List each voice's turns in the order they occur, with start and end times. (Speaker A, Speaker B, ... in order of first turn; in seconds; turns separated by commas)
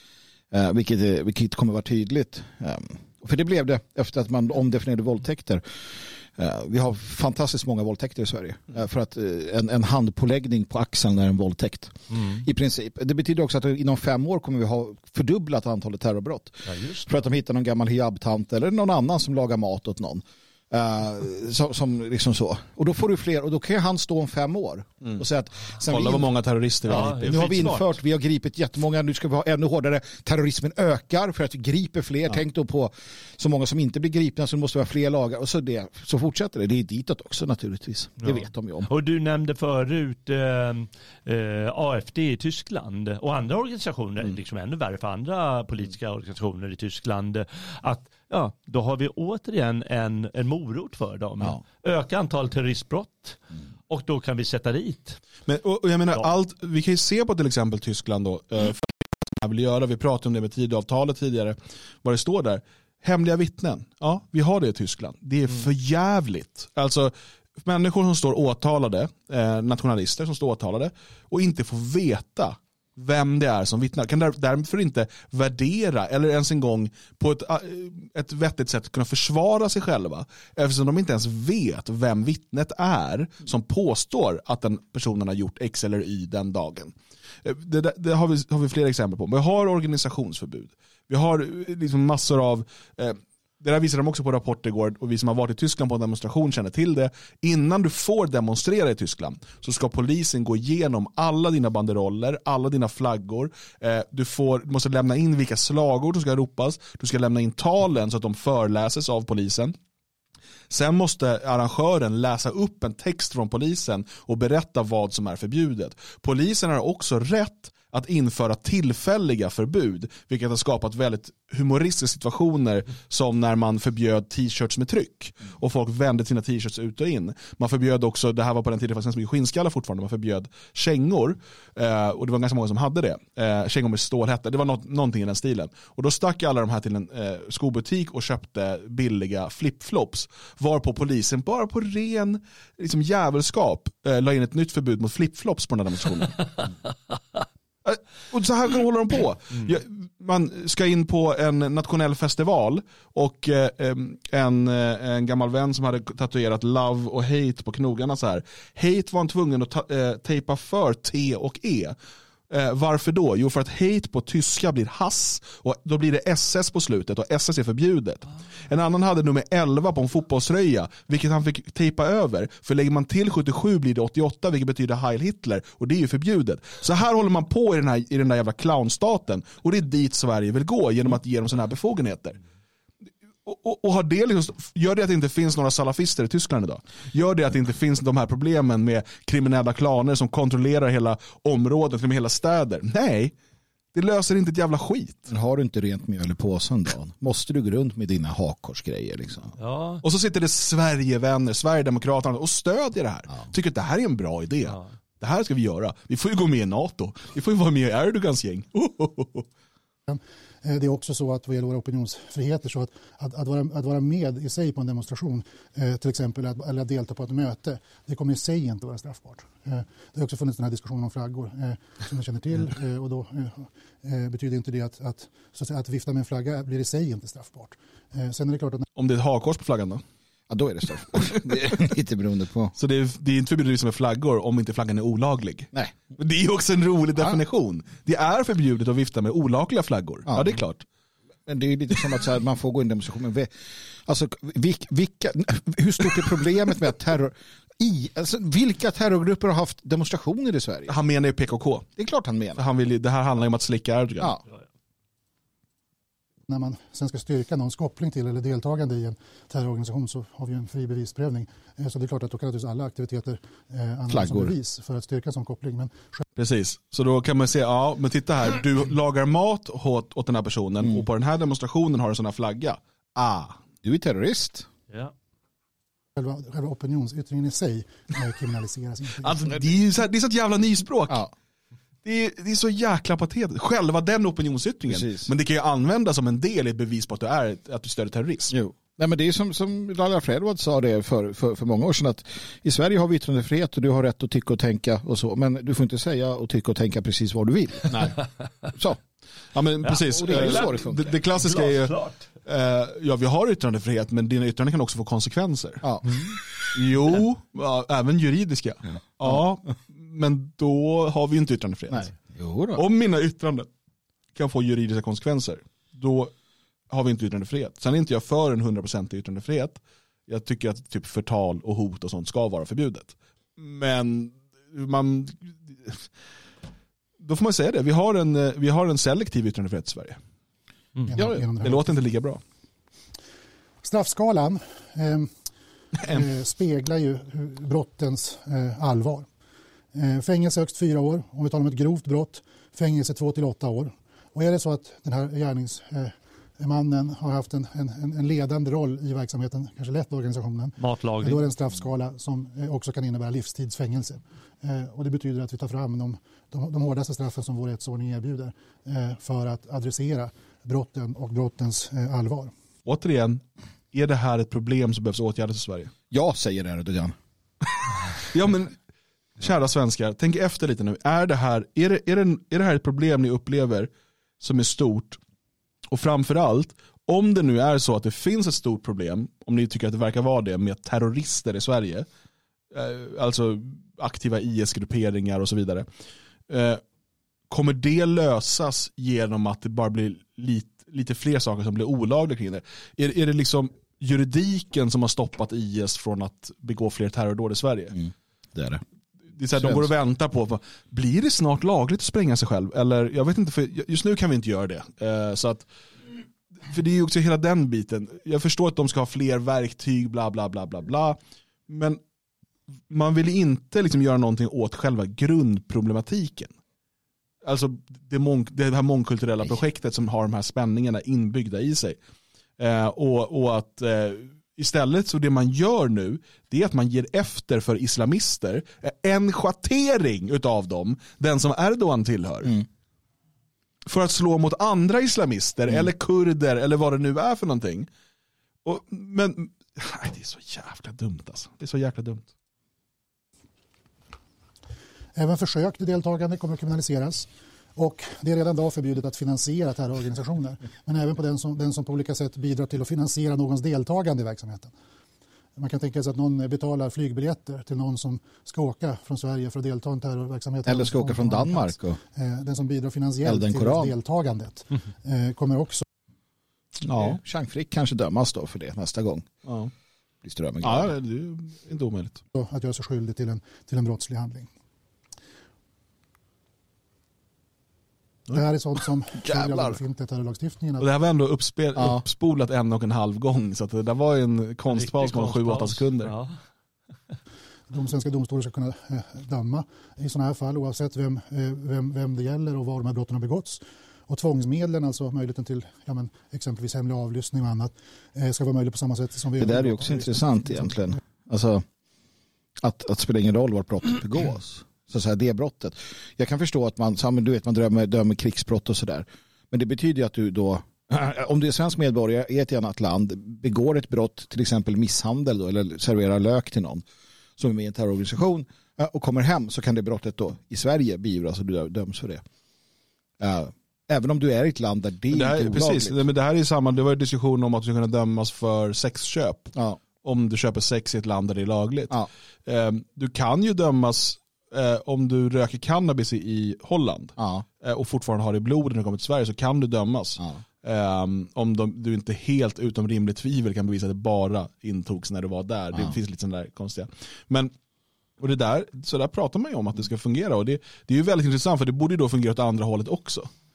Speaker A: 0.5-26.3, Speaker B: 12.1-12.4, Speaker B: 16.7-17.1, Speaker C: 25.9-27.8, Speaker B: 26.9-27.9, Speaker A: 26.9-38.9, Speaker B: 38.3-55.2, Speaker C: 55.5-109.8, Speaker C: 110.7-146.5, Speaker C: 147.8-162.0, Speaker C: 162.5-182.4, Speaker C: 183.4-193.3, Speaker C: 193.9-195.3, Speaker A: 195.3-199.5, Speaker B: 199.6-200.0, Speaker C: 200.0-209.5, Speaker D: 210.1-228.9, Speaker C: 229.0-230.0, Speaker A: 230.5-232.7, Speaker C: 232.8-240.8, Speaker A: 235.7-236.0, Speaker A: 237.2-237.4, Speaker A: 240.3-240.6, Speaker A: 241.5-243.5, Speaker A: 244.1-251.0, Speaker C: 250.9-251.9, Speaker A: 252.0-252.6, Speaker C: 252.6-254.4, Speaker D: 256.5-266.2, Speaker A: 264.1-264.5, Speaker C: 266.4-273.6, Speaker A: 270.8-271.1, Speaker A: 273.8-274.7, Speaker D: 276.2-279.5, Speaker C: 279.2-281.3, Speaker C: 282.1-288.6, Speaker A: 284.9-285.3, Speaker A: 288.5-298.1, Speaker C: 297.9-298.2, Speaker A: 298.7-299.0, Speaker C: 299.5-301.9, Speaker A: 300.0-301.2, Speaker B: 300.2-302.3, Speaker C: 302.4-305.9, Speaker A: 305.8-306.3, Speaker C: 306.7-312.1, Speaker A: 311.9-312.8, Speaker C: 312.8-313.7, Speaker C: 314.4-316.3, Speaker C: 316.9-326.0, Speaker C: 327.2-330.2, Speaker D: 331.1-331.9, Speaker A: 331.2-331.4, Speaker C: 331.2-332.4, Speaker D: 333.8-335.3, Speaker D: 336.0-339.3, Speaker D: 339.9-362.5, Speaker B: 350.8-351.4, Speaker C: 362.9-365.9, Speaker A: 366.1-367.1, Speaker C: 368.2-368.8, Speaker C: 369.4-375.2, Speaker C: 375.9-382.1, Speaker C: 382.7-385.9, Speaker C: 386.5-386.8, Speaker C: 387.5-397.9, Speaker A: 397.9-398.8, Speaker C: 399.4-405.7, Speaker A: 399.5-399.9, Speaker C: 406.6-411.2, Speaker C: 411.7-412.0, Speaker C: 412.9-416.5, Speaker C: 417.4-422.0, Speaker C: 422.6-432.6, Speaker C: 433.9-437.9, Speaker C: 438.6-442.3, Speaker D: 445.1-454.7, Speaker D: 455.6-465.8, Speaker A: 460.7-462.0, Speaker A: 463.2-463.9, Speaker C: 466.8-467.2, Speaker A: 466.9-469.3, Speaker C: 469.4-469.7, Speaker A: 470.2-470.9, Speaker C: 470.6-472.2, Speaker D: 472.3-474.5, Speaker D: 478.3-480.9, Speaker A: 479.2-479.7, Speaker C: 480.8-486.1, Speaker A: 481.8-482.0, Speaker B: 484.7-486.4, Speaker D: 487.7-500.7, Speaker A: 499.4-501.6, Speaker A: 502.6-516.8, Speaker A: 517.4-522.2, Speaker A: 523.2-526.0, Speaker C: 525.1-532.0, Speaker C: 532.5-547.5, Speaker A: 537.2-537.5, Speaker C: 548.2-553.3